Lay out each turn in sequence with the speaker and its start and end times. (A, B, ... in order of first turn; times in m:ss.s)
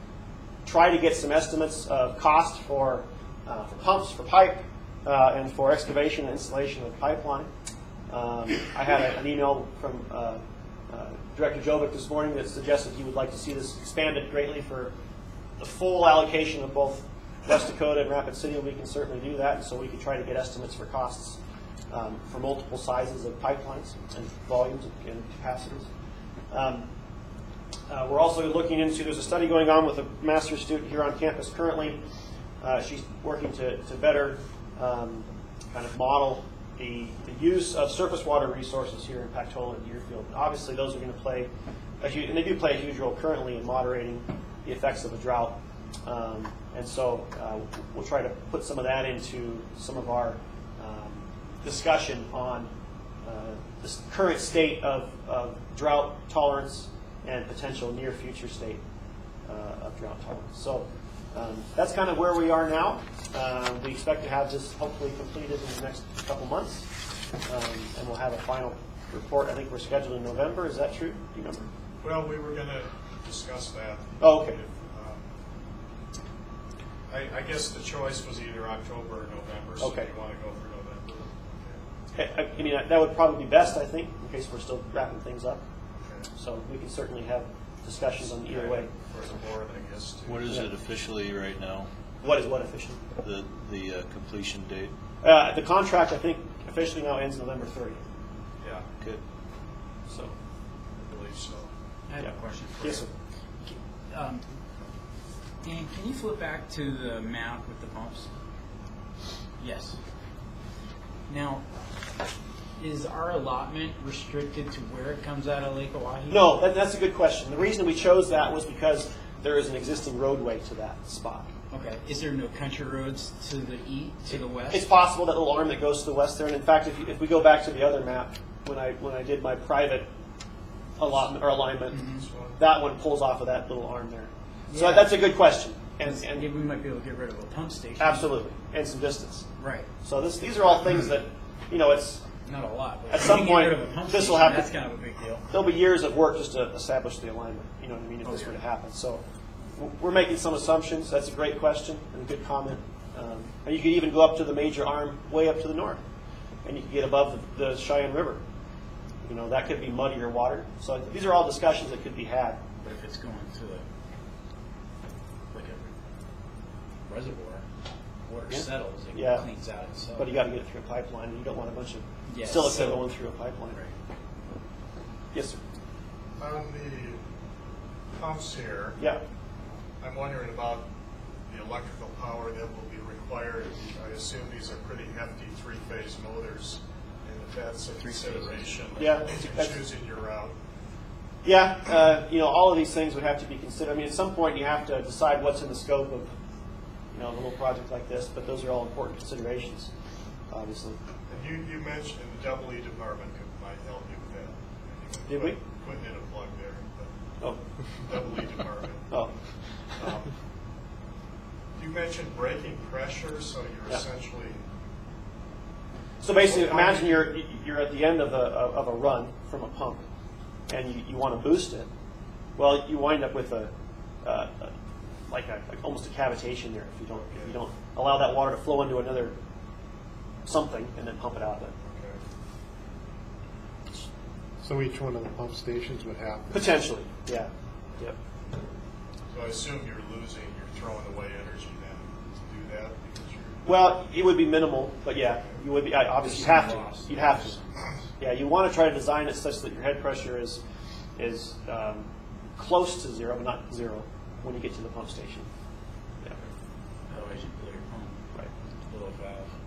0:00.6-0:07.5 A
0:08.1-0:14.9 A
0:15.6-0:21.4 A
0:21.9-0:25.9 A
0:26.5-0:26.9 A
0:27.9-0:32.0 A
0:32.6-0:41.5 A
0:42.0-0:52.7 A
0:53.2-0:58.8 A
0:59.5-1:06.9 A
1:07.4-1:11.7 A
1:12.0-1:15.3 B
1:14.2-1:14.6 A
1:17.1-1:21.8 B
1:19.8-1:20.1 A
1:22.1-1:25.6 A
1:25.9-1:26.3 B
1:26.3-1:28.9 A
1:28.2-1:30.5 B
1:30.3-1:31.9 C
1:32.2-1:33.0 A
1:33.2-1:34.9 C
1:35.2-1:38.0 A
1:38.6-1:38.9 B
1:40.1-1:40.3 A
1:41.0-1:41.7 B
1:42.1-1:43.1 D
1:42.2-1:43.1 A
1:43.6-1:44.4 D
1:45.6-1:48.3 D
1:49.6-1:50.0 D
1:51.3-1:51.6 D
1:52.8-1:56.5 D
1:56.3-2:01.5 A
2:01.7-2:04.9 D
2:04.3-2:10.1 A
2:11.0-2:12.0 A
2:11.9-2:12.2 D
2:12.1-2:12.6 B
2:12.6-2:16.4 A
2:14.7-2:15.1 D
2:16.0-2:18.3 D
2:18.0-2:19.5 A
2:19.6-2:19.9 D
2:20.0-2:22.2 A
2:22.4-2:25.4 D
2:23.1-2:24.7 A
2:25.5-2:29.2 A
2:28.2-2:28.5 D
2:29.8-2:36.0 A
2:36.6-2:38.4 A
2:39.2-2:42.6 A
2:42.8-2:43.8 D
2:45.5-2:45.9 D
2:47.1-2:47.6 D
2:48.2-2:50.3 D
2:48.5-2:49.5 A
2:50.1-2:53.8 A
2:52.3-2:53.1 D
2:55.3-2:55.6 A
2:56.4-2:57.2 B
2:58.2-2:59.0 B
3:00.0-3:00.8 B
3:01.5-3:10.6 B
3:08.0-3:09.1 D
3:09.0-3:09.8 A
3:11.4-3:16.3 A
3:17.1-3:19.9 A
3:20.5-3:21.0 A
3:21.3-3:27.1 B
3:25.3-3:25.6 A
3:28.0-3:30.4 B
3:31.8-3:34.6 B
3:36.2-3:40.0 A
3:36.4-3:37.3 B
3:40.7-3:41.9 A
3:42.6-3:43.7 A
3:44.2-3:44.7 A
3:45.3-3:49.4 A
3:47.2-3:47.6 B
3:50.4-3:51.7 A
3:51.8-3:52.2 B
3:54.6-3:56.7 E
3:56.5-3:58.2 A
3:59.3-4:03.7 B
4:03.6-4:07.6 A
4:05.3-4:05.6 B
4:06.2-4:08.0 D
4:08.2-4:10.6 A
4:11.2-4:15.5 A
4:17.1-4:18.2 D
4:18.9-4:19.5 D